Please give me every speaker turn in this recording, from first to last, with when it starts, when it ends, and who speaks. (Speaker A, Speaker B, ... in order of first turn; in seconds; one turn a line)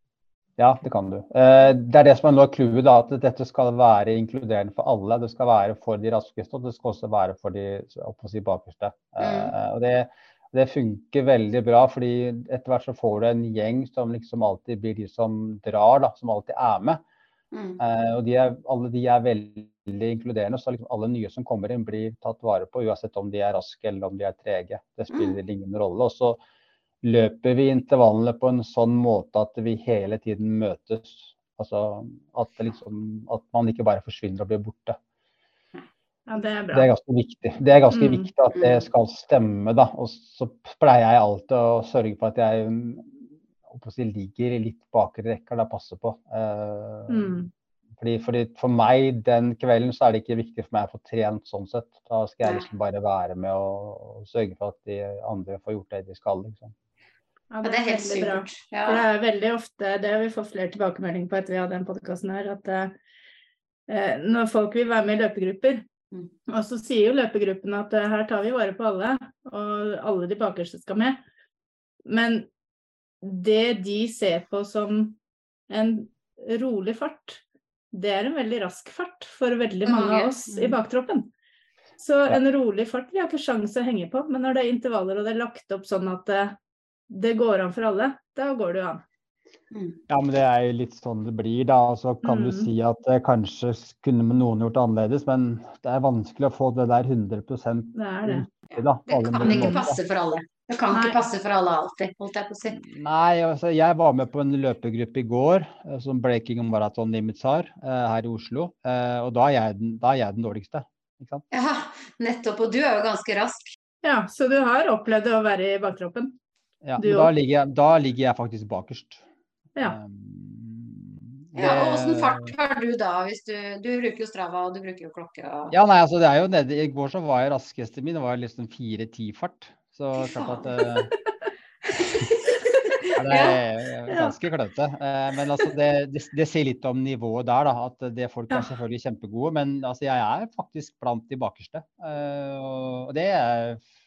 Speaker A: 0.6-17.0
Speaker B: 9.2-9.5
Speaker B: 17.5-17.8
Speaker A: 17.8-26.4
Speaker A: 27.0-35.0
Speaker C: 36.3-36.9
Speaker A: 36.7-43.2
Speaker C: 37.9-38.3
Speaker A: 43.7-47.4
Speaker C: 47.1-47.5
Speaker A: 48.0-56.7
Speaker C: 57.5-62.9
Speaker B: 57.6-59.1
Speaker C: 63.9-65.8
Speaker C: 66.5-71.2
Speaker C: 72.1-72.5
Speaker C: 73.2-75.2
Speaker C: 75.7-77.4
Speaker C: 77.9-81.3
Speaker B: 79.8-80.8
Speaker C: 82.0-86.6
Speaker C: 87.1-89.0
Speaker B: 89.7-90.0
Speaker A: 90.1-100.0
Speaker C: 92.2-92.7
Speaker C: 98.0-98.5
Speaker B: 98.7-102.8
Speaker C: 99.5-99.8
Speaker C: 100.9-101.2
Speaker A: 102.7-111.5
Speaker B: 111.5-113.7
Speaker C: 114.0-116.4
Speaker A: 116.8-119.2
Speaker C: 117.0-117.3
Speaker A: 119.8-122.5
Speaker B: 121.5-125.8
Speaker A: 125.7-131.1
Speaker B: 130.2-130.9
Speaker B: 131.9-133.6
Speaker A: 133.2-143.8